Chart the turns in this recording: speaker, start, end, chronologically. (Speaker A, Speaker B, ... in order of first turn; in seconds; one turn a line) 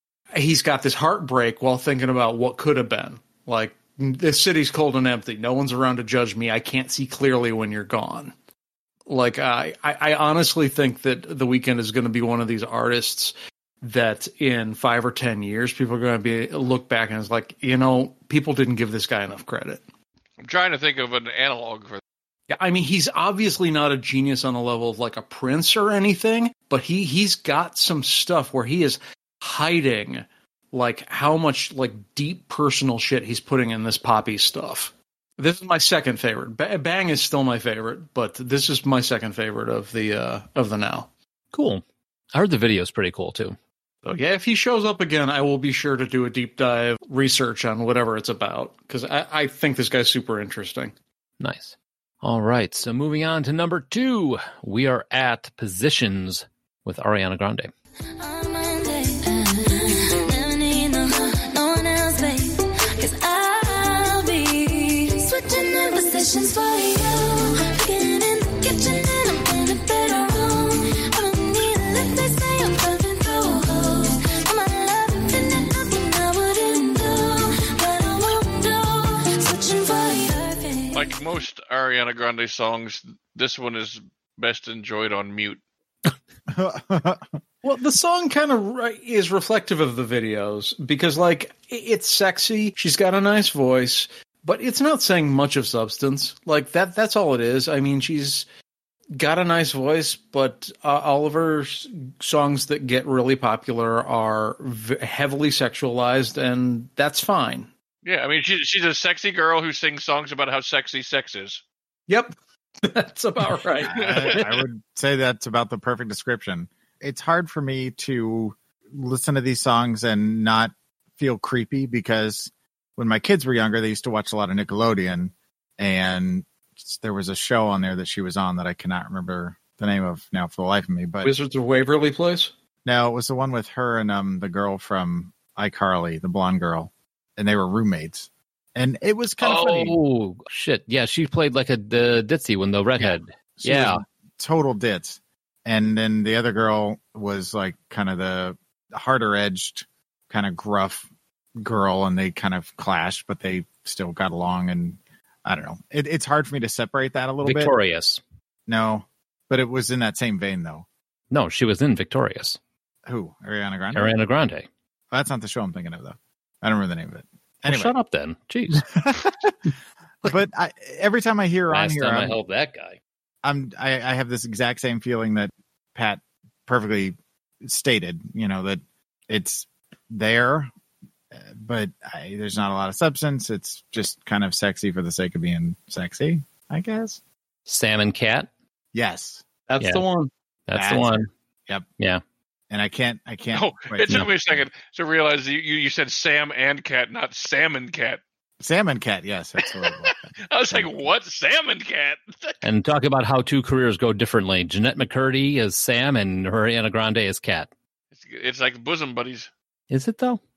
Speaker A: 0.3-8.3
Speaker A: 9.1-19.8
Speaker B: 20.4-22.0
Speaker A: 22.5-41.1
Speaker C: 41.5-41.8
Speaker C: 42.3-43.6
Speaker A: 44.0-50.9
Speaker C: 51.4-57.7
Speaker D: 58.2-81.1
Speaker B: 80.9-85.6
Speaker E: 86.5-87.3
Speaker A: 87.6-98.5
Speaker A: 99.1-107.7
Speaker B: 108.0-111.6
Speaker A: 112.1-114.4
Speaker E: 113.9-131.3
Speaker B: 114.0-114.4
Speaker A: 131.2-132.5
Speaker E: 132.8-140.0
Speaker C: 139.4-144.0
Speaker E: 143.6-157.7
Speaker C: 157.4-158.2
Speaker E: 158.7-160.8
Speaker C: 161.3-162.6
Speaker E: 163.1-164.2
Speaker C: 163.9-164.7
Speaker E: 165.1-167.9
Speaker C: 167.7-168.8
Speaker E: 168.9-169.6
Speaker E: 170.2-172.4
Speaker C: 171.7-173.0
Speaker E: 173.4-180.7
Speaker E: 181.3-187.2
Speaker C: 187.7-188.5
Speaker E: 188.9-189.4
Speaker A: 189.7-190.3
Speaker C: 189.8-190.0
Speaker C: 190.7-191.3
Speaker E: 190.7-191.8
Speaker E: 192.7-194.6
Speaker B: 193.5-198.2
Speaker E: 198.6-201.1
Speaker B: 199.6-202.6
Speaker C: 202.6-207.7
Speaker B: 208.1-209.5
Speaker C: 209.9-210.4